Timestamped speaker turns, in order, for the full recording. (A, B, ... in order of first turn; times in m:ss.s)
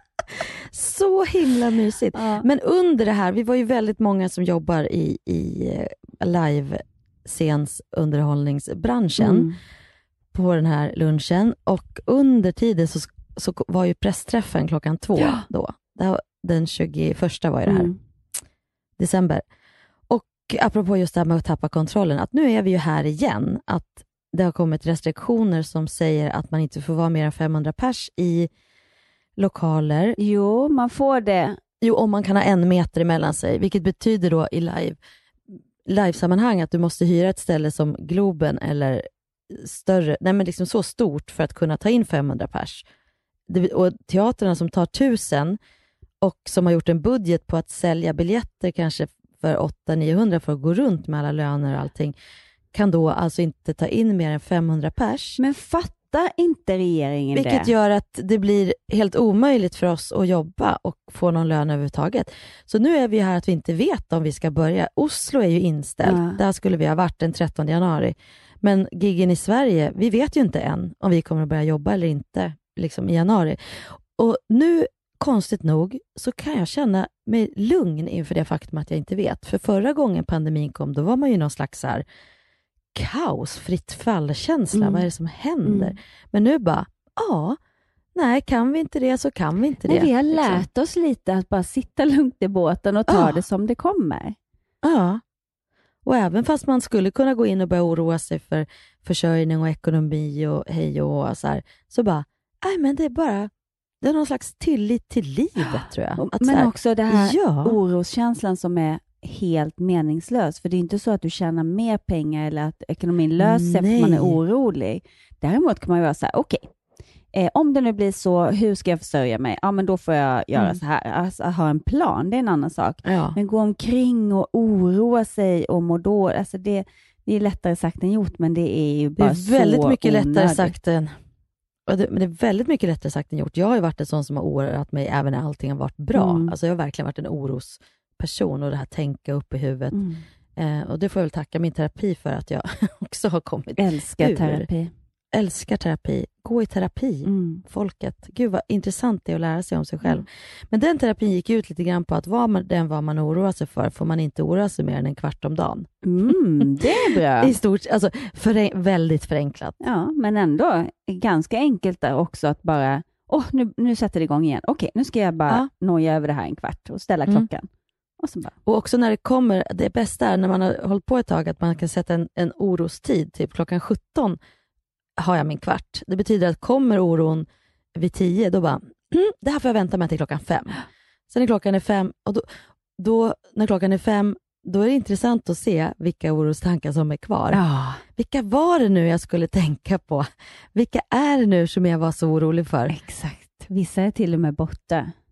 0:00.7-0:09.5 A
0:02.1-0:02.4 B
0:09.2-0:09.6 B
0:10.3-0:17.9 A
0:15.2-0:15.4 B
0:17.7-0:18.0 B
0:19.0-0:19.4 A
0:20.1-0:28.5 A
0:29.4-0:30.2 A
0:30.2-0:31.6 B
0:31.8-0:35.0 A
0:35.8-0:42.8 A
0:43.5-0:45.6 A
0:46.2-0:52.1 A
0:52.7-0:55.4 A
0:55.4-0:57.7 B
0:57.3-1:22.0 A
1:06.0-1:06.4 B
1:22.9-1:27.6 A
1:24.7-1:25.0 B
1:25.6-1:25.9 B
1:28.1-1:30.7 A
1:29.9-1:34.4 B
1:33.1-1:33.4 A
1:34.8-1:35.2 A
1:36.0-1:43.5 A
1:44.0-1:47.8 A
1:45.6-1:56.7 B
1:53.4-1:54.4 A
1:57.3-2:10.7 B
2:03.0-2:03.4 A
2:09.2-2:11.1 A
2:11.9-2:20.0 A
2:16.1-2:16.5 B
2:19.9-2:20.2 B
2:20.6-2:24.7 A
2:23.8-2:24.9 B
2:25.3-2:35.9 A
2:27.2-2:27.6 B
2:36.0-2:37.5 B
2:36.6-2:39.8 A
2:39.8-2:47.7 B
2:48.2-2:48.5 B
2:48.6-2:54.4 A
2:55.2-3:00.8 A
3:01.3-3:02.5 A
3:03.0-3:13.0 A
3:07.5-3:08.0 B
3:12.9-3:15.1 B